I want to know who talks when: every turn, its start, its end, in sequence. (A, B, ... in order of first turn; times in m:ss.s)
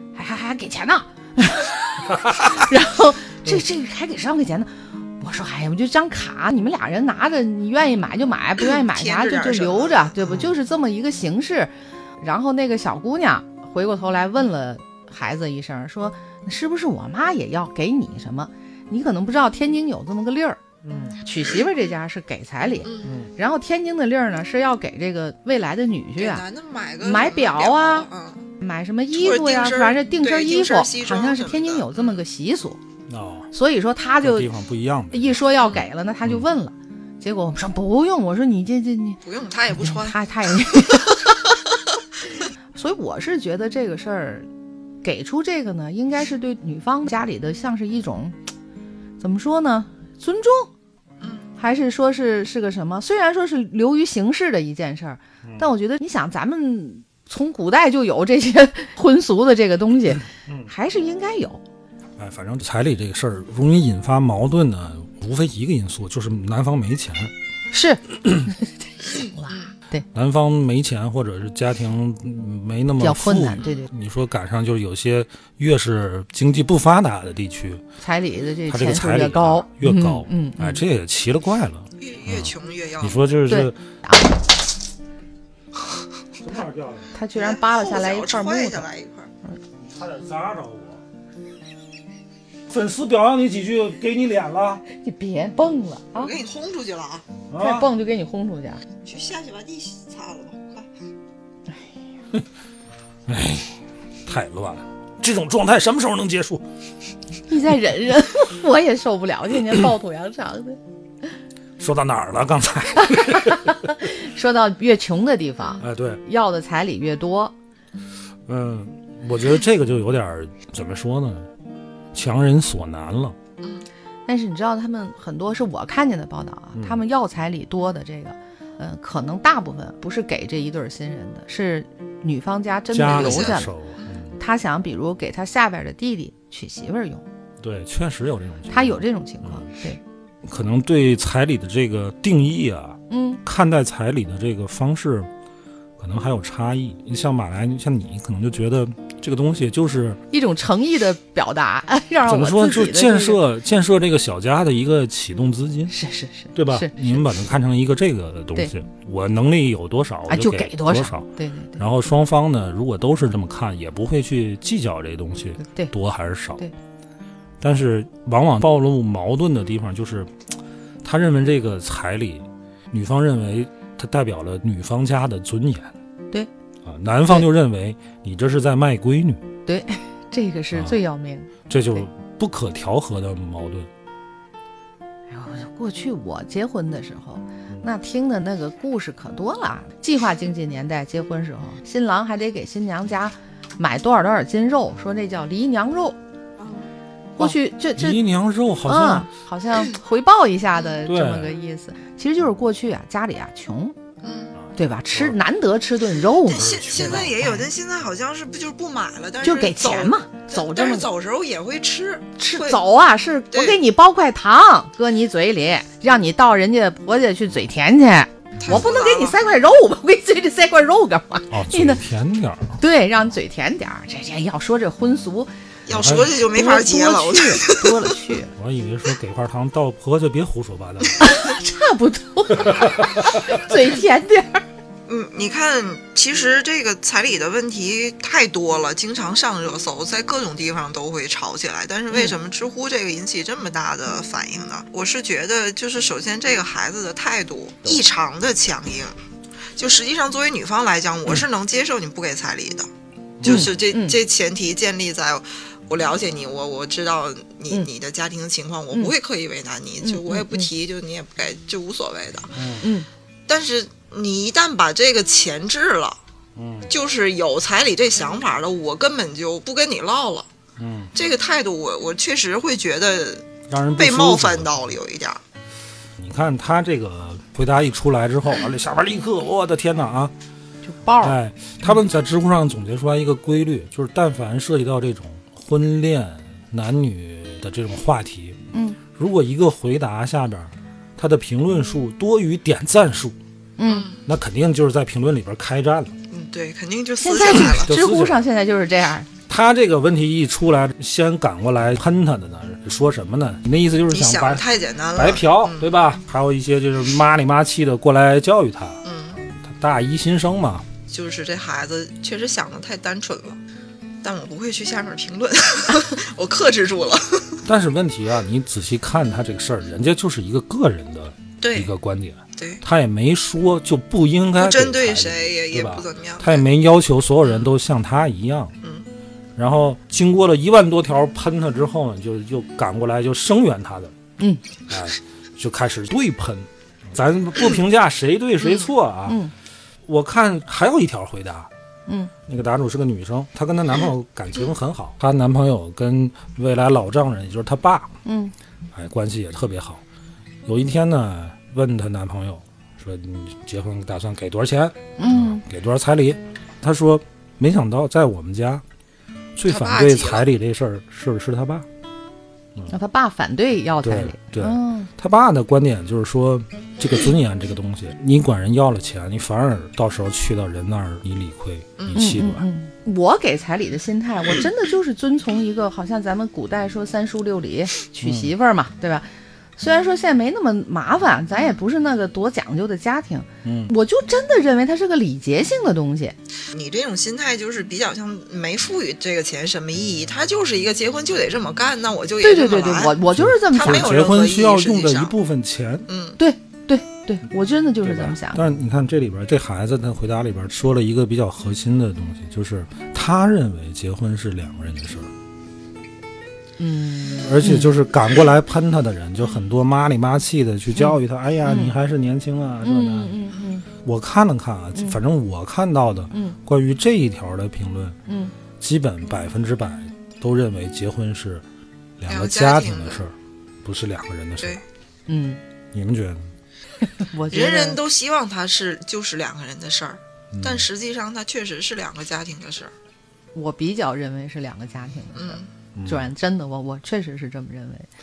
0:00.1-0:20.6 A
0:02.1-0:02.5 B
0:08.6-0:10.2 C
0:20.8-0:21.2 B
0:21.2-0:26.4 A
0:22.8-0:23.2 C
0:23.0-0:23.3 B
0:26.2-0:28.5 C
0:27.0-0:28.1 A
0:28.6-0:32.8 A
0:29.1-0:32.2 C
0:33.1-0:33.5 B
0:33.5-0:34.5 A
0:34.2-0:35.4 B
0:35.1-0:39.2 A
0:39.2-0:40.2 C
0:39.8-0:41.4 A
0:40.7-0:41.0 C
0:42.7-0:44.5 A
0:45.0-0:48.4 A
0:49.2-0:50.7 A
0:51.2-0:51.5 C
0:51.6-1:01.6 A
1:02.2-1:07.3 B
1:07.7-1:10.0 A
1:10.1-1:17.8 B
1:13.0-1:13.8 A
1:13.6-1:13.9 C
1:18.0-1:20.8 A
1:18.7-1:23.8 B
1:22.0-1:23.2 C
1:23.5-1:24.3 A
1:26.4-1:27.1 B
1:27.1-1:28.8 A
1:27.3-1:29.3 C
1:29.8-1:31.0 B
1:32.7-1:34.8 B
1:34.9-1:36.3 A
1:36.1-1:37.2 C
1:37.5-1:37.9 B
1:37.6-1:38.8 A
1:39.0-1:40.9 C
1:43.3-1:46.6 B
1:47.5-1:50.8 A
1:51.8-1:53.7 B
1:53.0-1:57.5 A
1:55.8-1:56.2 B
1:58.5-2:01.5 B
2:02.1-2:03.4 B
2:03.6-2:03.8 C
2:04.3-2:13.7 A
2:06.8-2:07.0 B
2:12.9-2:14.4 B
2:13.1-2:13.6 C
2:14.4-2:17.2 A
2:17.6-2:19.7 B
2:18.7-2:20.0 A
2:20.4-2:25.3 B
2:23.1-2:23.4 A
2:26.0-2:30.2 B
2:30.3-2:33.4 A
2:32.2-2:35.9 B
2:35.9-2:37.0 A
2:36.5-2:46.6 B
2:40.3-2:41.8 A
2:45.6-2:45.9 A
2:47.6-2:50.3 B
2:51.0-2:55.9 B
2:56.8-2:59.4 B
2:59.6-3:02.0 A
3:00.7-3:01.0 B
3:01.7-3:03.9 B
3:05.3-3:16.2 A
3:17.4-3:18.2 A
3:17.4-3:19.3 B
3:18.8-3:24.0 A
3:21.0-3:21.6 B
3:24.2-3:24.5 C
3:24.6-3:25.4 B
3:24.7-3:27.6 A
3:26.4-3:32.8 C
3:26.5-3:27.5 B
3:29.4-3:31.1 A
3:32.4-3:42.0 A
3:33.5-3:33.8 C
3:38.6-3:39.4 C
3:41.5-3:42.8 B
3:42.8-3:45.5 A
3:45.8-3:48.1 C
3:45.9-3:46.3 B
3:46.5-3:48.5 A
3:48.5-3:51.3 B
3:51.2-3:54.6 A
3:52.6-3:53.0 B
3:55.1-4:09.2 C
4:09.8-4:12.9 C
4:13.4-4:13.7 B
4:13.4-4:22.6 C
4:13.4-4:14.2 A
4:20.0-4:20.7 A
4:22.5-4:22.9 B
4:22.8-4:23.1 A
4:23.5-4:26.2 C
4:26.6-4:26.9 B
4:26.9-4:30.5 C
4:30.8-4:31.1 B
4:31.1-4:35.4 C
4:33.7-4:34.9 B
4:36.2-4:40.3 B
4:40.8-4:41.4 A
4:41.2-4:48.6 B
4:48.7-4:49.0 A
4:49.1-4:53.4 B
4:53.8-4:54.1 A
4:53.8-4:54.2 C
4:54.2-4:56.2 B
4:56.3-4:57.9 C
4:57.2-4:59.3 A
4:57.7-4:58.4 B
4:59.5-5:10.8 B
5:04.1-5:05.9 C
5:09.0-5:09.4 C
5:11.1-5:13.6 C
5:14.2-5:17.6 C
5:17.6-5:28.7 B
5:21.6-5:21.9 C
5:22.6-5:22.8 C
5:24.6-5:26.6 C
5:29.6-5:34.1 B
5:34.9-5:39.4 B
5:39.3-5:39.5 A
5:40.0-5:41.7 B
5:42.1-5:42.3 A
5:42.5-5:48.1 B
5:48.2-5:48.5 A
5:48.9-5:50.0 B
5:50.6-5:58.8 B
5:55.2-5:55.6 A
5:59.6-6:01.8 B
5:59.7-6:00.4 C
6:02.9-6:05.1 A
6:04.0-6:12.6 B
6:12.0-6:12.3 C
6:12.1-6:26.4 A
6:18.2-6:18.5 B
6:23.6-6:23.9 B
6:26.7-6:33.2 C
6:32.4-6:34.3 A
6:33.3-6:36.0 B
6:33.7-6:35.3 C
6:36.1-6:36.4 C
6:36.4-6:38.6 A
6:38.0-6:45.3 B
6:46.8-6:47.9 A
6:47.4-6:53.4 B
6:51.0-6:51.9 A
6:52.8-6:53.8 A
6:54.0-6:58.2 B
6:56.3-6:56.6 A
6:58.3-6:58.5 A
6:58.8-7:01.6 B
7:02.2-7:04.8 B
7:02.3-7:03.2 C
7:05.3-7:05.6 A
7:05.9-7:06.5 B
7:07.0-7:08.0 A
7:07.5-7:12.9 C
7:10.5-7:10.9 B
7:13.5-7:18.1 A
7:15.4-7:15.7 C
7:16.0-7:16.3 B